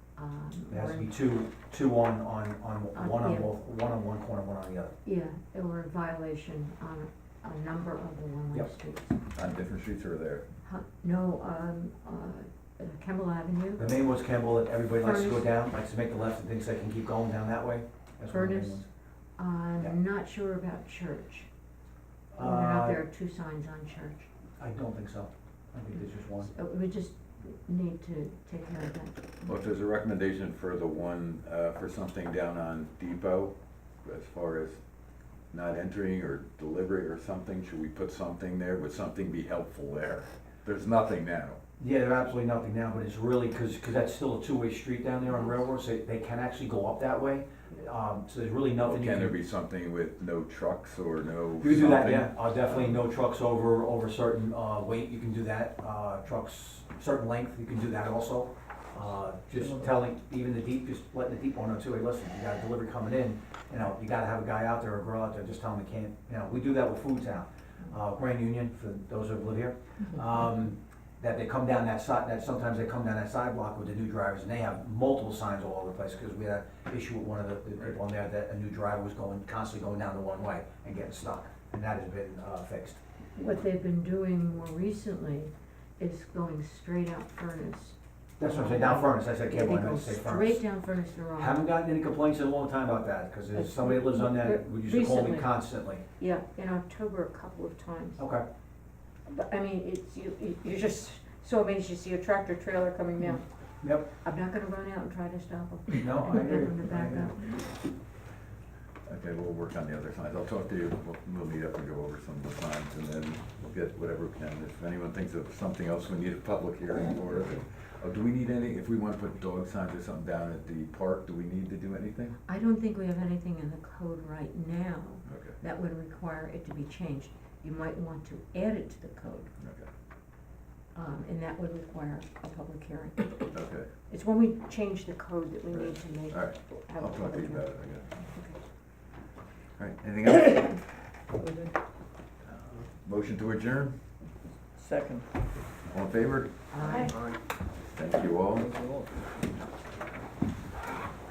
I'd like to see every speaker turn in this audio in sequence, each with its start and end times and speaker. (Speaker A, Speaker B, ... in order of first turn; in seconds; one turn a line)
Speaker A: 0.1-1.1
Speaker B: 0.7-4.9
Speaker A: 2.9-3.5
Speaker A: 5.0-9.2
Speaker C: 9.3-10.4
Speaker A: 10.6-14.0
Speaker B: 13.8-18.9
Speaker A: 15.0-15.5
Speaker A: 18.3-18.9
Speaker A: 19.4-21.5
Speaker B: 22.3-23.0
Speaker A: 22.4-24.3
Speaker B: 24.6-26.5
Speaker A: 26.4-29.5
Speaker C: 29.4-34.8
Speaker C: 35.5-41.6
Speaker B: 41.8-49.4
Speaker C: 48.8-52.4
Speaker B: 51.6-83.0
Speaker D: 59.5-59.9
Speaker A: 83.3-91.6
Speaker B: 88.4-90.6
Speaker B: 91.3-96.0
Speaker A: 93.5-95.5
Speaker A: 96.2-98.2
Speaker B: 98.2-98.4
Speaker A: 99.2-103.5
Speaker B: 103.8-104.1
Speaker A: 104.1-107.7
Speaker B: 106.0-107.3
Speaker C: 109.0-122.4
Speaker A: 122.5-129.5
Speaker C: 125.2-125.6
Speaker C: 129.6-129.9
Speaker A: 130.9-133.6
Speaker C: 133.5-133.9
Speaker A: 134.1-137.7
Speaker C: 135.7-138.1
Speaker A: 138.3-138.6
Speaker C: 139.8-140.8
Speaker D: 141.4-141.7
Speaker C: 142.8-143.9
Speaker D: 144.8-145.3
Speaker C: 145.8-146.5
Speaker A: 146.7-147.2
Speaker D: 146.8-147.4
Speaker C: 147.7-148.8
Speaker D: 148.6-149.1